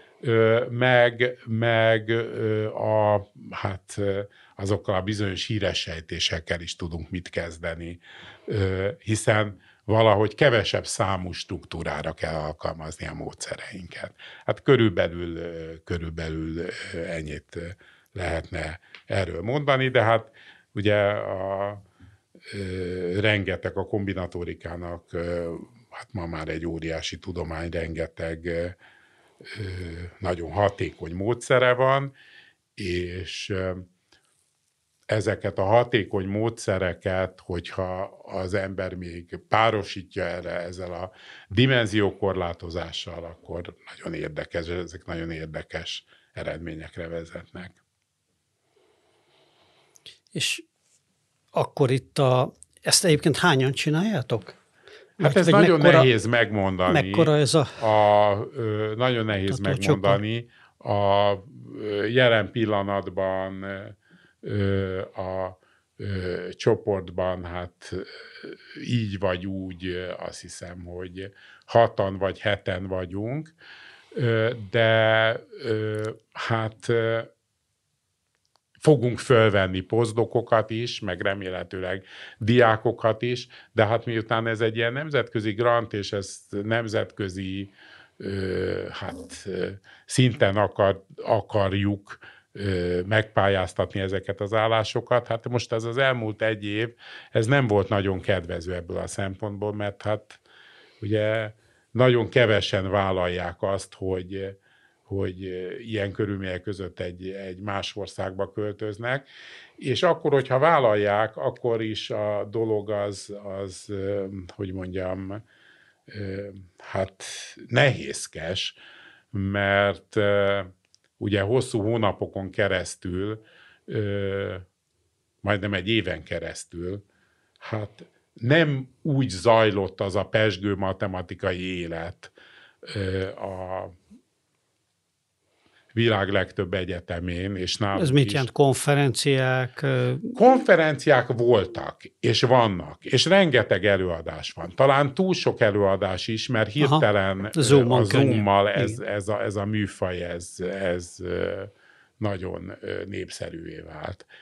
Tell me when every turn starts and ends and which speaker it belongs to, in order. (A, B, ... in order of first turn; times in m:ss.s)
0:00.2-0:21.8 A
0:22.5-0:28.8 A
0:29.4-0:32.1 A
0:32.8-0:33.9 A
0:35.1-0:47.8 A
0:50.3-0:50.6 B
0:51.5-0:54.6 B
0:55.2-0:56.1 B
0:55.2-1:13.5 A
0:56.9-0:57.8 B
0:59.5-1:00.2 B
1:14.1-1:17.3 A
1:18.8-1:40.4 A
1:41.0-1:49.3 A
1:49.8-1:55.4 A
1:56.1-1:58.8 A
1:59.3-2:04.6 A
2:05.4-2:07.0 A
2:07.6-2:12.3 A
2:12.8-2:13.9 A
2:15.9-2:18.5 A
2:17.9-2:20.4 B
2:20.3-2:34.3 A
2:26.8-2:29.0 B